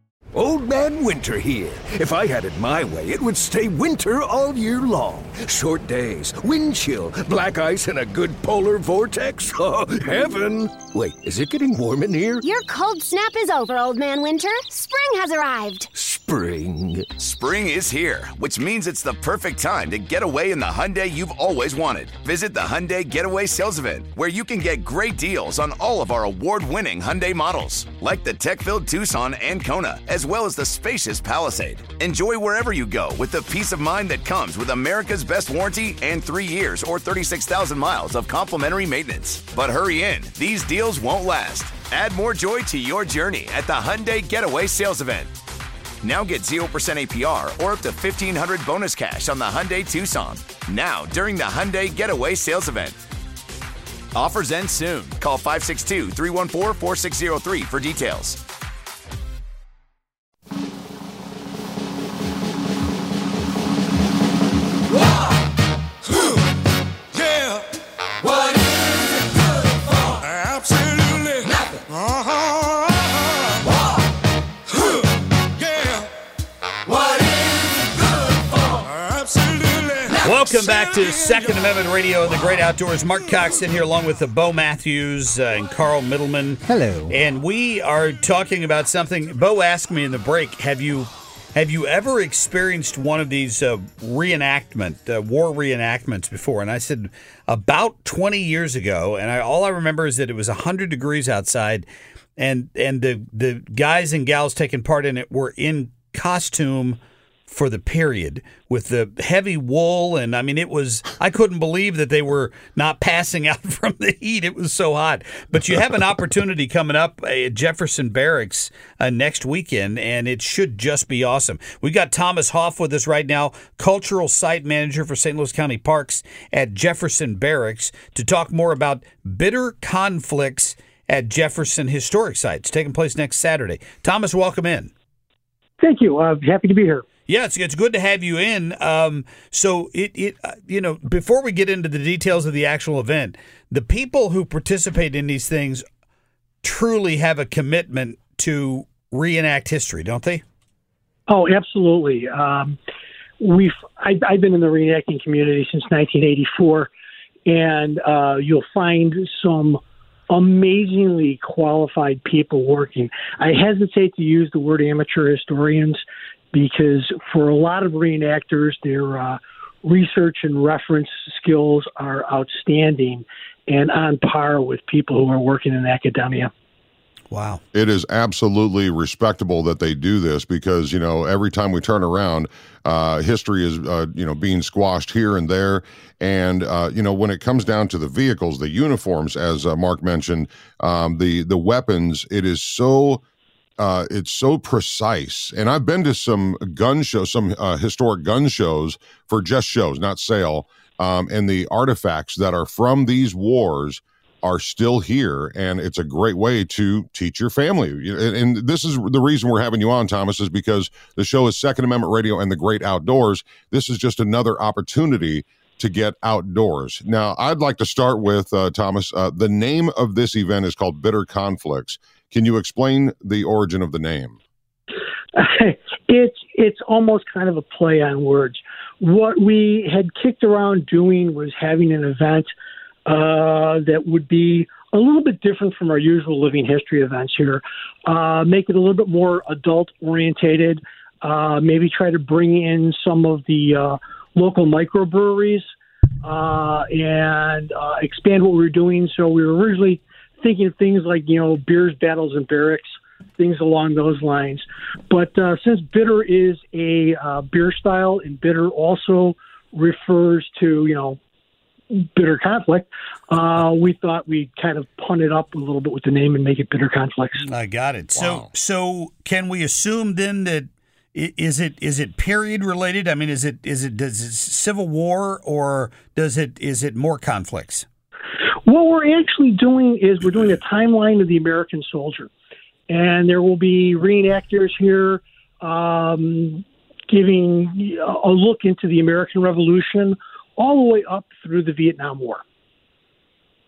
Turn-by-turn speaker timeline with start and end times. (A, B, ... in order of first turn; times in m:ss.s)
0:00.3-0:12.4 A
0:12.4-0:15.9 B
0:16.0-0:17.1 A
0:17.2-0:45.3 C
0:46.0-0:53.0 C
0:54.1-0:58.4 C
1:20.2-1:41.8 D
1:42.4-2:14.9 D
2:15.8-2:17.0 E
2:17.3-2:25.8 D
2:26.6-2:30.4 D
2:31.3-2:32.8 E
2:33.4-2:36.9 E
2:37.4-2:56.5 E
2:57.3-2:57.6 D
2:57.7-3:13.2 F
3:13.8-3:44.4 F
3:45.3-3:52.5 E
3:53.0-4:05.6 E
4:06.2-4:12.9 E
4:13.4-4:21.2 E
4:21.9-4:27.4 E
4:27.4-4:37.8 D
4:28.1-4:28.5 F
4:38.6-4:42.3 E
4:42.9-4:52.4 E